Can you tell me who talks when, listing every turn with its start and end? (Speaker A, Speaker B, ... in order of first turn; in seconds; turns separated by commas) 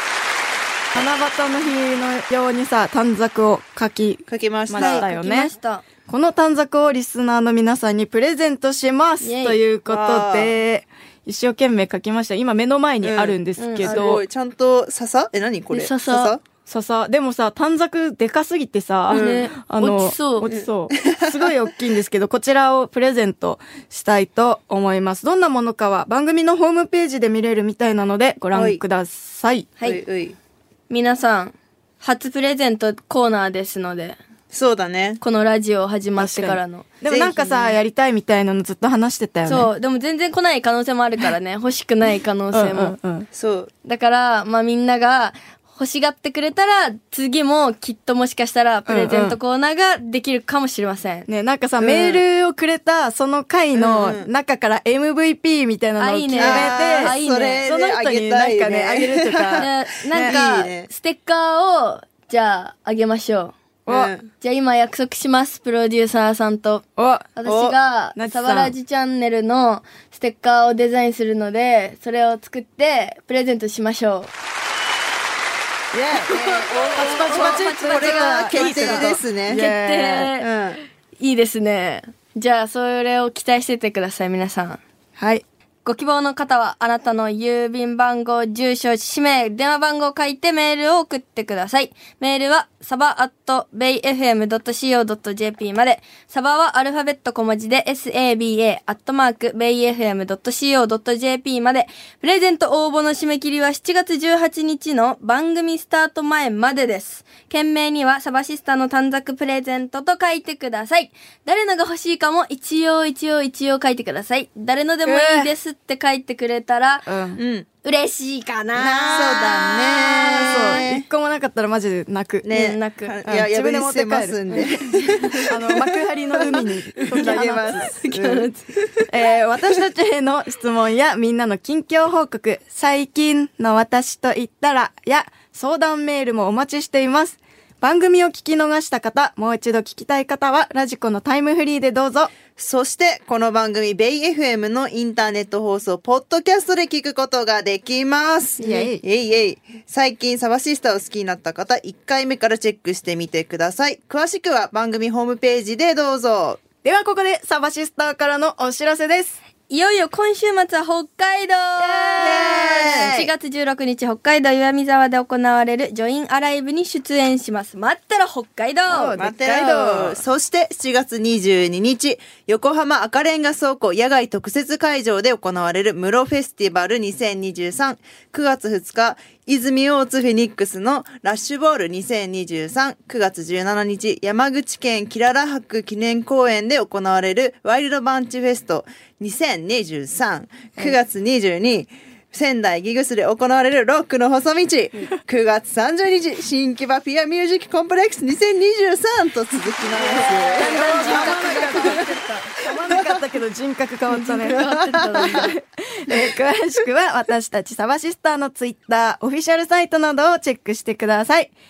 Speaker A: 0.9-5.5, Speaker B: 4.3-5.1, Speaker C: 4.7-5.8, Speaker A: 6.1-14.2, Speaker C: 9.2-9.6, Speaker B: 9.9-10.6, Speaker B: 13.0-16.4, Speaker C: 13.6-14.1, Speaker C: 15.7-16.3, Speaker A: 16.7-29.8, Speaker B: 19.1-19.5, Speaker C: 19.1-20.5, Speaker B: 20.5-21.2, Speaker B: 28.5-28.8, Speaker B: 29.8-30.4, Speaker C: 30.9-34.2, Speaker B: 34.5-35.2, Speaker C: 35.2-36.9, Speaker A: 36.2-39.7, Speaker B: 37.1-37.8, Speaker C: 39.5-43.0, Speaker A: 42.5-43.3, Speaker B: 43.3-43.7, Speaker C: 43.8-51.3, Speaker A: 48.9-49.4, Speaker A: 51.3-60.4, Speaker B: 51.8-52.2, Speaker B: 53.8-54.3, Speaker C: 56.0-57.6, Speaker B: 56.3-60.9, Speaker C: 59.6-63.5, Speaker A: 63.9-64.1, Speaker B: 63.9-64.3, Speaker C: 64.4-74.3, Speaker A: 67.0-67.3, Speaker B: 67.5-67.8, Speaker A: 68.2-68.8, Speaker B: 75.9-79.6, Speaker C: 76.5-80.5, Speaker A: 77.0-80.3, Speaker B: 80.4-80.8, Speaker C: 81.2-84.8, Speaker A: 85.2-85.4, Speaker C: 85.8-117.1, Speaker A: 115.0-115.5, Speaker A: 117.1-117.4, Speaker B: 117.4-117.7, Speaker C: 117.8-120.8, Speaker B: 118.8-121.0, Speaker A: 120.4-122.6, Speaker B: 122.4-125.8, Speaker C: 122.5-123.2, Speaker A: 123.2-124.8, Speaker C: 124.5-125.5, Speaker A: 125.5-127.9, Speaker B: 126.4-129.1, Speaker C: 127.2-128.6, Speaker A: 129.1-142.3, Speaker B: 142.6-156.6, Speaker A: 148.6-149.0, Speaker C: 148.6-148.9, Speaker A: 156.8-159.4, Speaker C: 159.7-169.2, Speaker A: 161.8-163.3, Speaker B: 162.2-163.2, Speaker A: 168.9-170.2, Speaker B: 169.2-202.1, Speaker C: 200.0-202.5, Speaker A: 200.0-211.5, Speaker C: 204.1-205.5, Speaker B: 204.6-205.5